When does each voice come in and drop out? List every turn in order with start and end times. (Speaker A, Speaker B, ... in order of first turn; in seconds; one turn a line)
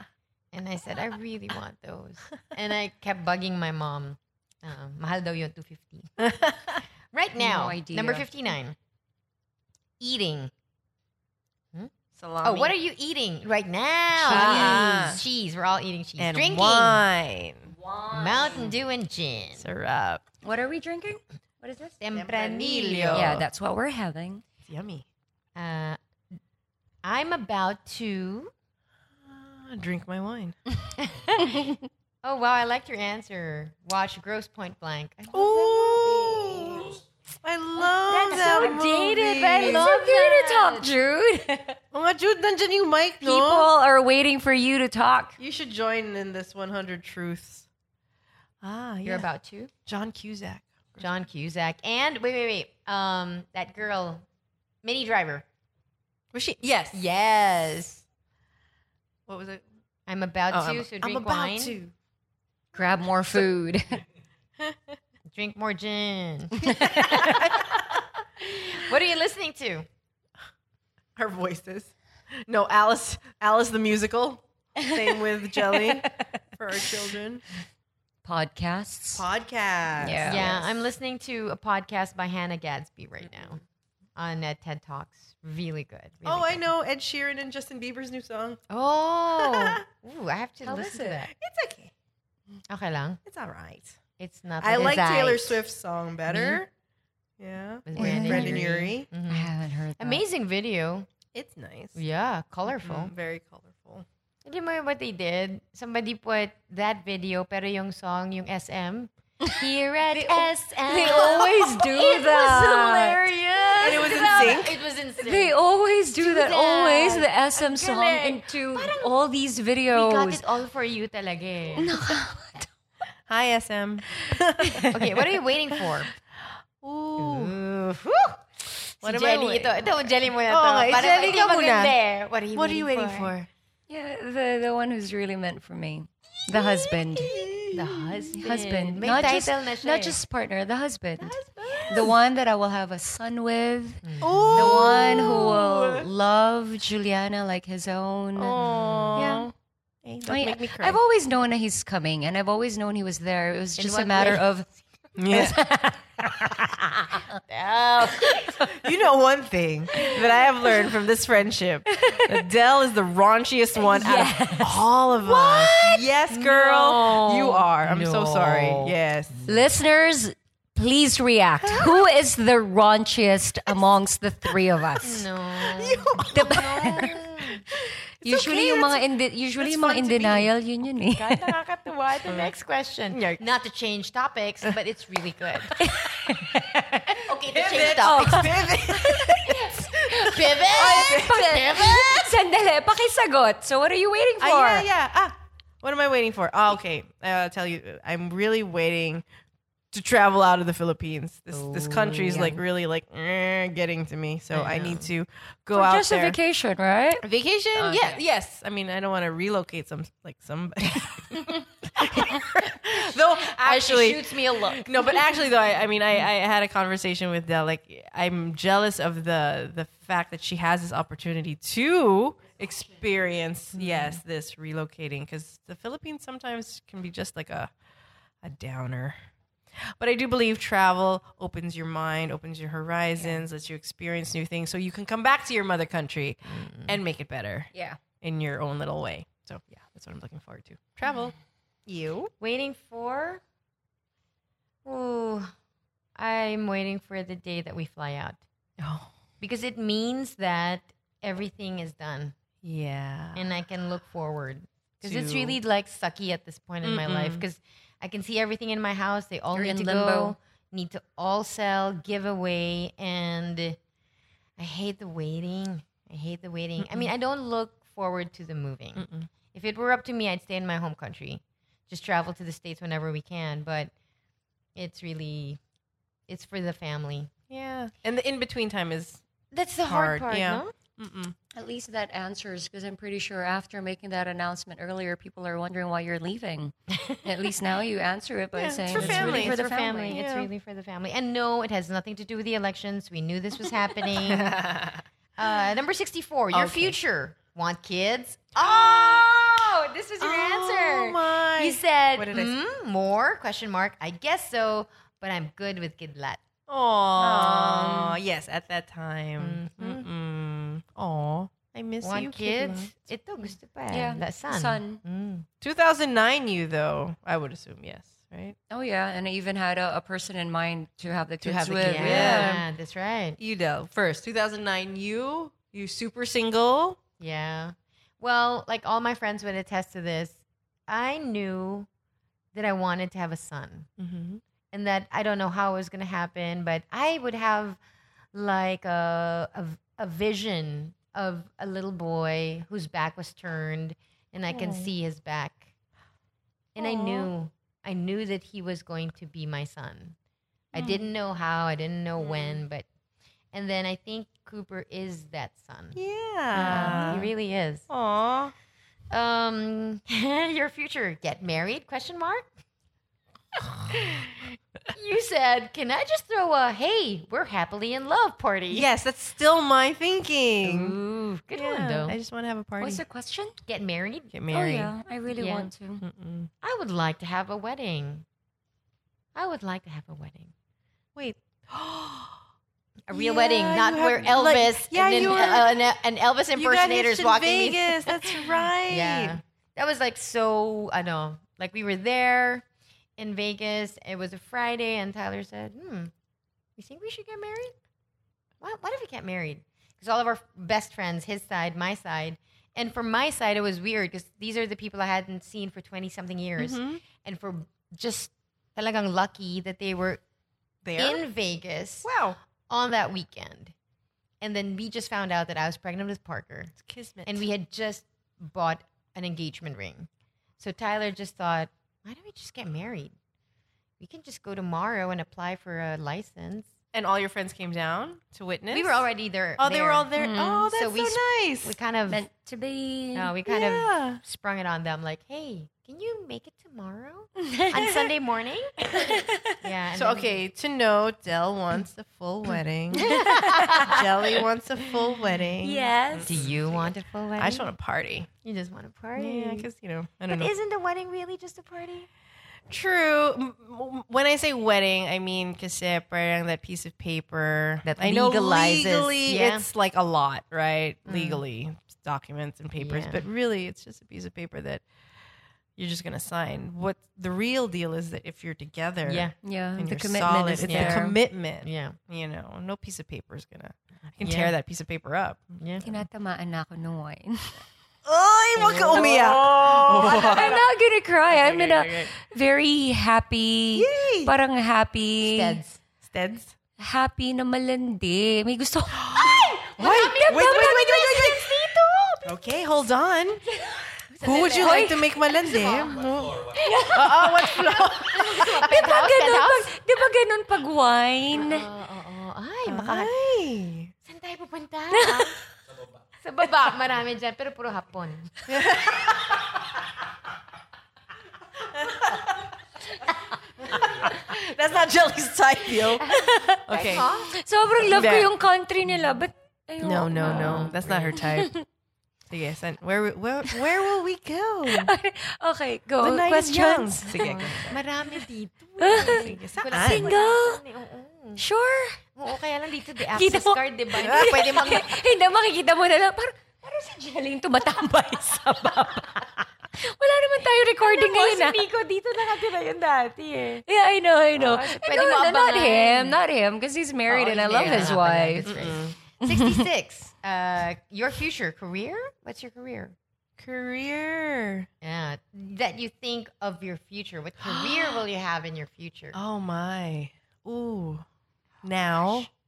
Speaker A: 0.5-6.3
Speaker B: 6.2-6.8
Speaker A: 7.1-8.8
Speaker C: 7.4-8.3
Speaker A: 10.0-10.5
Speaker B: 12.2-12.7
Speaker A: 12.4-17.0
Speaker B: 14.2-15.2
Speaker C: 14.2-15.2
Speaker B: 16.2-17.7
Speaker C: 17.7-18.7
Speaker A: 18.1-19.7
Speaker B: 19.6-20.2
Speaker C: 20.4-22.0
Speaker A: 22.0-23.3
Speaker B: 22.1-23.4
Speaker C: 23.1-24.4
Speaker B: 24.7-25.0
Speaker A: 25.5-26.0
Speaker A: 27.0-28.5
Speaker B: 29.2-30.6
Speaker A: 31.0-31.7
Speaker A: 32.2-37.0
Speaker B: 35.3-39.9
Speaker A: 38.0-40.9
Speaker C: 38.3-38.8
Speaker C: 39.6-41.8
Speaker B: 41.9-43.7
Speaker C: 43.2-45.4
Speaker B: 45.4-47.6
Speaker B: 48.6-49.3
Speaker A: 49.0-49.7
Speaker B: 49.9-51.0
Speaker A: 51.0-54.2
Speaker A: 54.8-55.4
Speaker B: 56.3-57.0
Speaker A: 56.9-58.0
Speaker B: 59.3-59.6
Speaker A: 60.1-61.8
Speaker B: 60.5-61.9
Speaker C: 62.7-64.0
Speaker B: 64.6-64.9
Speaker A: 65.3-67.7
Speaker C: 66.6-67.4
Speaker B: 66.7-67.6
Speaker A: 68.4-69.9
Speaker B: 71.2-77.4
Speaker C: 74.8-75.1
Speaker C: 75.6-76.4
Speaker C: 78.2-79.2
Speaker B: 79.1-80.8
Speaker C: 80.0-80.5
Speaker A: 80.3-83.6
Speaker A: 84.2-86.6
Speaker B: 86.2-88.6
Speaker A: 88.7-91.3
Speaker B: 89.4-89.8
Speaker C: 90.7-91.2
Speaker B: 91.3-91.9
Speaker A: 92.7-93.2
Speaker B: 93.2-94.0
Speaker A: 94.2-95.6
Speaker B: 94.6-96.7
Speaker A: 96.3-96.6
Speaker B: 97.4-99.1
Speaker A: 97.9-101.1
Speaker C: 98.0-98.7
Speaker C: 99.3-100.2
Speaker B: 101.3-102.0
Speaker A: 102.0-103.1
Speaker B: 102.7-104.0
Speaker A: 104.4-115.6
Speaker C: 110.1-113.3
Speaker B: 111.0-111.3
Speaker B: 113.8-114.8
Speaker C: 113.9-114.5
Speaker C: 115.2-120.4
Speaker A: 116.2-119.1
Speaker A: 119.9-121.9
Speaker C: 121.8-122.7
Speaker B: 123.3-125.4
Speaker C: 124.2-124.8
Speaker A: 124.9-126.1
Speaker B: 126.8-127.5
Speaker A: 127.2-128.4
Speaker A: 129.0-133.3
Speaker B: 129.0-132.0
Speaker B: 132.5-133.5
Speaker C: 133.9-137.3
Speaker B: 136.5-138.3
Speaker A: 137.7-140.2
Speaker C: 138.3-148.6
Speaker B: 141.2-142.1
Speaker A: 141.6-142.1
Speaker A: 144.0-145.5
Speaker B: 144.2-146.1
Speaker B: 148.4-149.5
Speaker A: 148.6-149.3
Speaker C: 149.2-149.5
Speaker B: 150.0-151.0
Speaker C: 150.2-154.7
Speaker A: 153.8-154.4
Speaker B: 155.2-155.6
Speaker C: 155.3-157.2
Speaker A: 157.3-158.6
Speaker C: 158.2-158.7
Speaker B: 158.7-169.4
Speaker C: 159.9-160.2
Speaker C: 161.9-162.3
Speaker C: 163.8-164.8
Speaker A: 165.1-168.9
Speaker C: 169.5-175.2
Speaker B: 171.7-172.0
Speaker A: 175.0-177.6
Speaker B: 175.6-177.8
Speaker C: 176.3-177.2
Speaker C: 178.2-181.5
Speaker A: 178.2-179.0
Speaker B: 178.4-178.7
Speaker A: 179.6-180.5
Speaker A: 181.1-185.7
Speaker B: 183.1-183.4
Speaker C: 185.8-187.2
Speaker A: 187.1-188.6
Speaker B: 187.5-191.9
Speaker C: 187.7-189.6
Speaker A: 189.5-192.3
Speaker C: 190.7-194.9
Speaker B: 194.4-199.2
Speaker B: 199.9-206.4
Speaker A: 201.6-202.4
Speaker C: 202.2-202.5
Speaker A: 204.5-205.1
Speaker C: 205.7-208.2
Speaker B: 207.2-227.7
Speaker A: 213.5-215.2
Speaker A: 223.7-224.2
Speaker B: 228.4-229.2
Speaker B: 230.0-241.3
Speaker A: 236.5-237.0
Speaker C: 237.7-238.0
Speaker B: 241.9-242.3
Speaker A: 242.4-243.4
Speaker A: 244.8-245.5
Speaker A: 246.2-248.4
Speaker B: 248.8-249.1
Speaker A: 249.4-252.3
Speaker B: 252.6-253.5
Speaker A: 253.3-263.8
Speaker B: 255.0-255.6
Speaker B: 256.8-257.4
Speaker C: 259.5-260.3
Speaker A: 264.6-273.9
Speaker B: 266.8-267.1
Speaker B: 268.9-269.3
Speaker A: 274.8-275.6
Speaker A: 276.3-277.3
Speaker B: 277.5-279.2
Speaker A: 279.5-280.7
Speaker B: 279.8-281.3
Speaker C: 281.5-290.2
Speaker B: 288.5-290.5
Speaker A: 288.9-294.6
Speaker B: 294.1-295.0
Speaker A: 295.4-306.4
Speaker B: 296.5-297.0
Speaker B: 298.6-299.3
Speaker B: 300.2-302.5
Speaker B: 306.7-313.0
Speaker C: 307.2-308.1
Speaker A: 309.4-310.1
Speaker A: 312.0-315.4
Speaker C: 313.9-315.0
Speaker B: 315.6-318.6
Speaker C: 318.7-322.6
Speaker B: 321.4-322.6
Speaker A: 321.8-323.4
Speaker B: 323.4-327.0
Speaker A: 327.2-331.9
Speaker A: 332.5-333.9
Speaker B: 334.0-334.4
Speaker A: 334.7-337.8
Speaker A: 338.3-345.7
Speaker B: 344.5-344.9
Speaker A: 346.8-350.1
Speaker B: 346.8-347.3
Speaker A: 350.7-352.8
Speaker B: 350.8-351.1
Speaker B: 352.2-352.6
Speaker A: 353.5-356.0
Speaker B: 355.9-357.3
Speaker A: 356.5-357.9
Speaker C: 356.6-357.2
Speaker B: 357.9-358.5
Speaker A: 359.1-362.5
Speaker A: 363.8-368.9
Speaker B: 368.7-371.0
Speaker A: 370.6-372.2
Speaker B: 371.5-373.0
Speaker C: 372.8-373.6
Speaker A: 373.6-374.3
Speaker B: 374.3-374.9
Speaker C: 374.5-376.0
Speaker A: 375.4-375.7
Speaker B: 376.0-376.5
Speaker A: 376.6-378.2
Speaker A: 379.3-380.5
Speaker B: 381.1-382.4
Speaker A: 383.1-392.6
Speaker B: 383.1-386.0
Speaker B: 386.5-389.4
Speaker A: 393.2-396.1
Speaker A: 396.8-397.7
Speaker A: 398.6-410.2
Speaker B: 406.6-407.0
Speaker B: 410.8-411.2
Speaker A: 411.0-412.1
Speaker B: 412.0-412.4
Speaker A: 412.7-413.7
Speaker A: 414.4-416.7
Speaker B: 416.8-417.5
Speaker A: 417.2-420.1
Speaker A: 420.6-423.1
Speaker A: 424.0-426.7
Speaker B: 426.9-429.0
Speaker A: 428.7-430.1
Speaker B: 429.6-431.8
Speaker C: 430.1-430.7
Speaker A: 430.7-432.2
Speaker C: 432.1-433.3
Speaker A: 433.1-438.9
Speaker B: 433.4-434.2
Speaker C: 437.4-437.8
Speaker C: 438.9-439.6
Speaker A: 439.6-440.4
Speaker B: 439.9-446.6
Speaker A: 443.0-444.0
Speaker C: 443.1-443.9
Speaker C: 445.6-446.3
Speaker A: 446.3-447.7
Speaker B: 447.4-448.3
Speaker A: 448.4-449.7
Speaker B: 449.1-450.5
Speaker A: 450.3-452.1
Speaker B: 452.7-464.8
Speaker A: 457.8-459.6
Speaker A: 461.1-461.4
Speaker A: 462.8-463.2
Speaker B: 465.8-475.6
Speaker A: 469.1-469.3
Speaker C: 469.4-471.2
Speaker A: 470.6-471.0
Speaker A: 471.6-472.0
Speaker A: 474.2-474.5
Speaker A: 475.6-475.9
Speaker C: 475.8-477.6
Speaker B: 478.0-480.6
Speaker A: 478.6-480.6
Speaker C: 480.0-485.6
Speaker B: 481.3-482.1
Speaker B: 483.7-484.3
Speaker A: 485.2-485.8
Speaker B: 486.0-486.5
Speaker C: 486.8-491.1
Speaker B: 488.9-491.5
Speaker A: 489.7-492.3
Speaker B: 492.2-493.4
Speaker A: 493.5-496.0
Speaker B: 494.2-498.6
Speaker C: 494.6-495.0
Speaker A: 496.5-499.7
Speaker C: 496.6-501.7
Speaker A: 501.3-503.1
Speaker B: 502.6-503.9
Speaker A: 504.0-505.4
Speaker C: 504.9-505.3
Speaker A: 506.2-508.3
Speaker B: 508.5-509.3
Speaker B: 511.8-512.3
Speaker B: 513.6-517.0
Speaker C: 516.0-521.6
Speaker A: 516.7-517.3
Speaker B: 517.8-518.3
Speaker B: 519.8-521.5
Speaker A: 520.2-521.1
Speaker B: 522.3-524.9
Speaker C: 524.7-527.6
Speaker B: 526.0-527.8
Speaker A: 527.2-531.4
Speaker C: 528.8-530.6
Speaker B: 528.9-530.1
Speaker C: 531.4-532.0
Speaker A: 532.1-535.0
Speaker C: 533.1-541.6
Speaker B: 534.0-534.9
Speaker A: 540.8-543.6
Speaker C: 543.6-548.8
Speaker A: 544.4-546.2
Speaker A: 547.1-552.9
Speaker B: 547.5-548.9
Speaker C: 549.3-549.6
Speaker B: 553.4-554.7
Speaker A: 554.8-559.2
Speaker B: 557.4-558.0
Speaker B: 559.1-561.0
Speaker B: 561.6-562.3